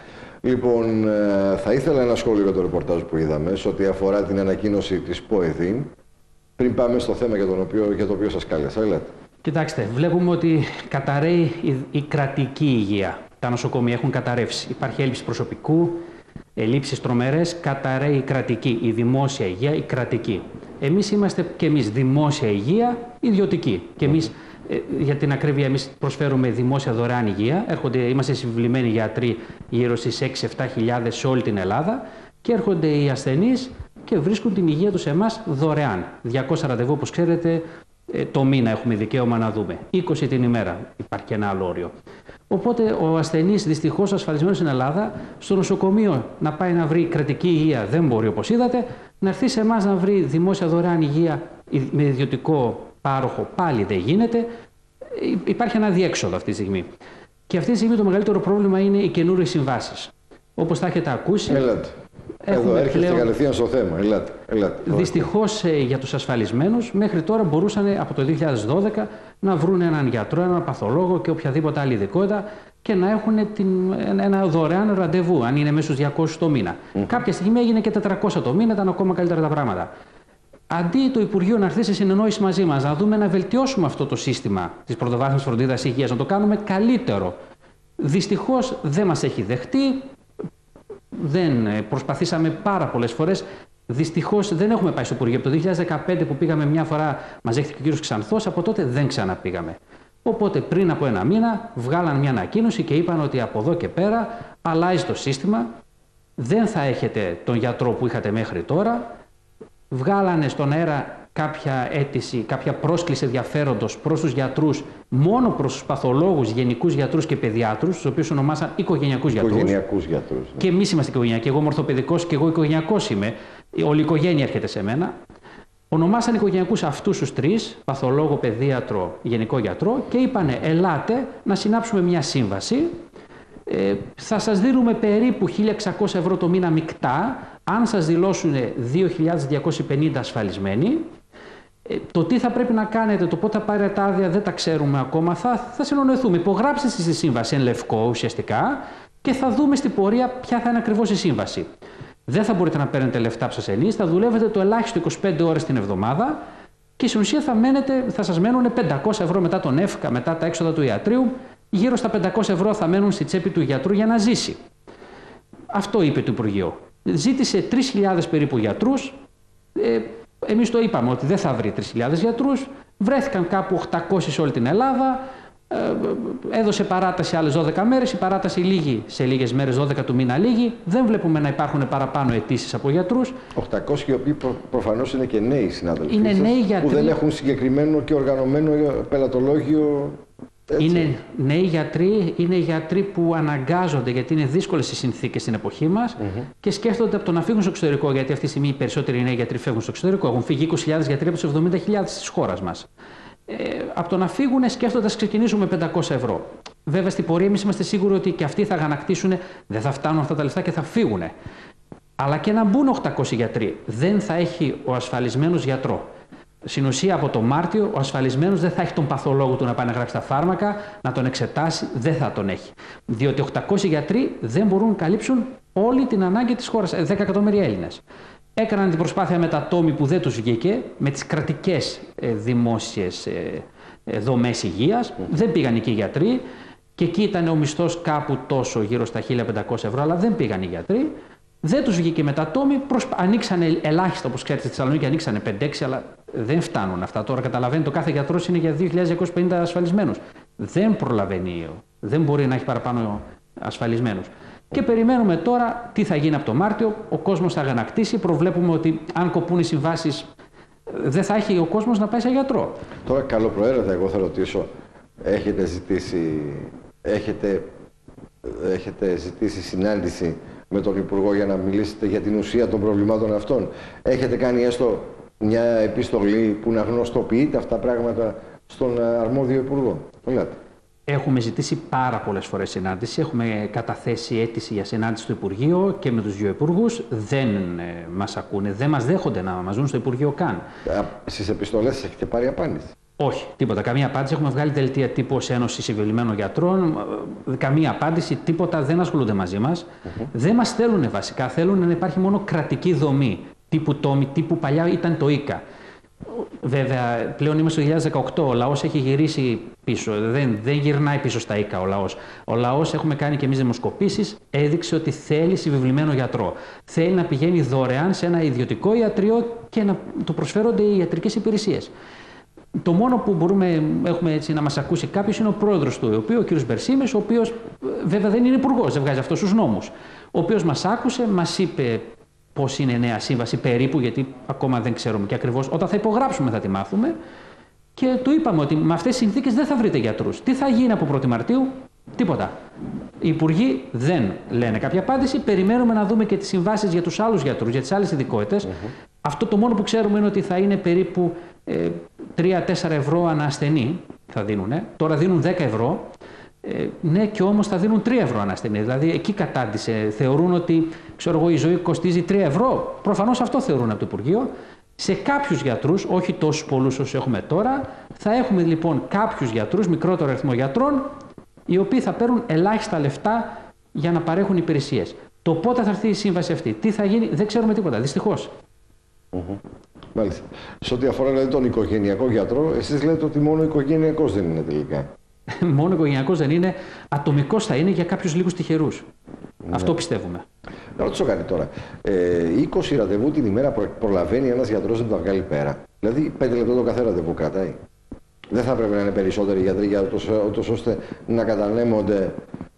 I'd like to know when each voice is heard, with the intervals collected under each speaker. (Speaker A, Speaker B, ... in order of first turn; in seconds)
Speaker A: 0.4-5.9, 6.6-9.1, 61.5-61.9, 62.5-65.3, 119.3-120.6, 183.6-191.1, 263.1-264.7, 265.2-267.7, 268.4-280.6, 290.9-292.9, 379.3-379.6, 380.1-385.1, 389.6-389.9, 391.0-397.8, 398.5-402.4
Speaker B: 9.4-16.0, 16.6-41.9, 42.5-54.5, 55.1-56.9, 57.5-61.6, 62.4-63.3, 64.8-79.9, 80.7-87.3, 88.0-90.1, 91.1-105.7, 106.4-109.0, 109.9-119.7, 120.6-125.1, 125.9-132.9, 133.7-141.1, 141.8-151.7, 152.3-156.4, 157.0-164.6, 165.7-169.2, 169.7-183.4, 186.1-187.2, 190.8-202.9, 203.5-211.3, 212.2-216.1, 216.6-228.0, 228.6-236.4, 236.9-260.3, 260.9-262.8, 281.1-290.6, 293.2-305.6, 306.3-321.9, 322.8-337.1, 337.9-342.5, 343.2-356.1, 356.6-371.1, 371.7-378.5, 385.6-389.1, 389.7-390.4